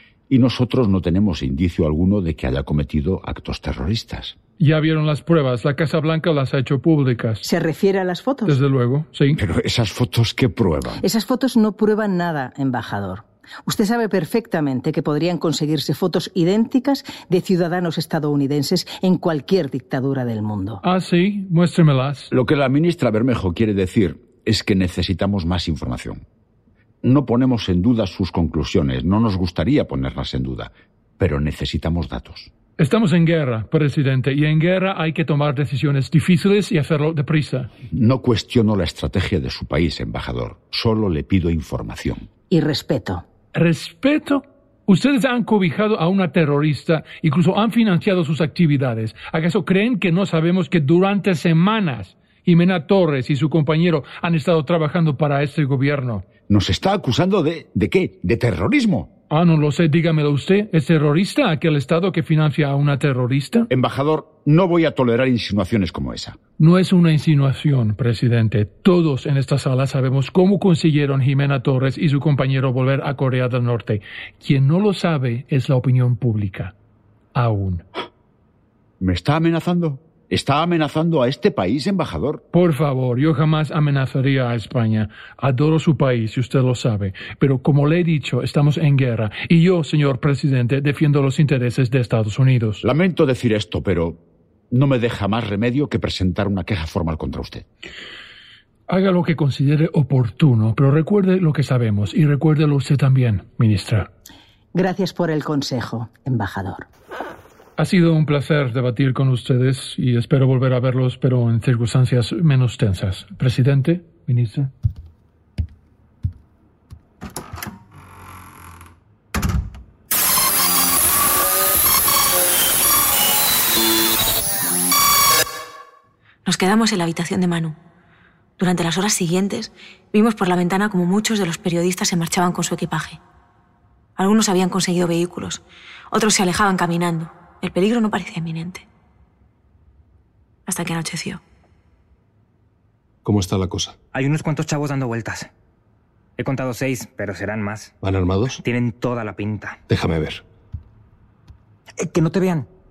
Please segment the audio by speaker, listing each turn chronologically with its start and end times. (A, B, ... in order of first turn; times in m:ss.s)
0:00.3-0:04.4 A
0:04.6-0:07.5 B
0:07.4-0:08.6 C
0:08.5-0:09.4 B
0:09.4-0:11.0 A
0:11.0-0:20.8 C
0:20.8-0:22.3 B
0:22.3-0:26.2 A
0:27.0-0:32.5 A
0:32.8-0:37.7 B
0:37.9-0:42.3 A
0:42.5-0:43.2 C
0:43.5-0:56.2 B
0:56.5-0:59.1 A
0:59.3-1:03.7 B
1:03.7-1:06.4 A
1:06.6-1:16.7 B
1:17.4-1:17.8 B
1:19.0-1:22.4 A
1:22.5-1:32.8 B
1:32.8-1:37.6 A
1:38.9-1:44.1 B
1:44.7-1:46.9 C
1:47.8-1:54.7 B
2:06.4-2:07.8 D
2:08.6-2:13.2 D
2:14.2-2:18.9 D
2:20.7-2:21.4 D
2:23.2-2:24.0 E
2:24.1-2:25.5 F
2:26.4-2:27.9 F
2:28.0-2:28.6 E
2:28.6-2:29.8 F
2:29.9-2:30.4 E
2:32.0-2:32.7 F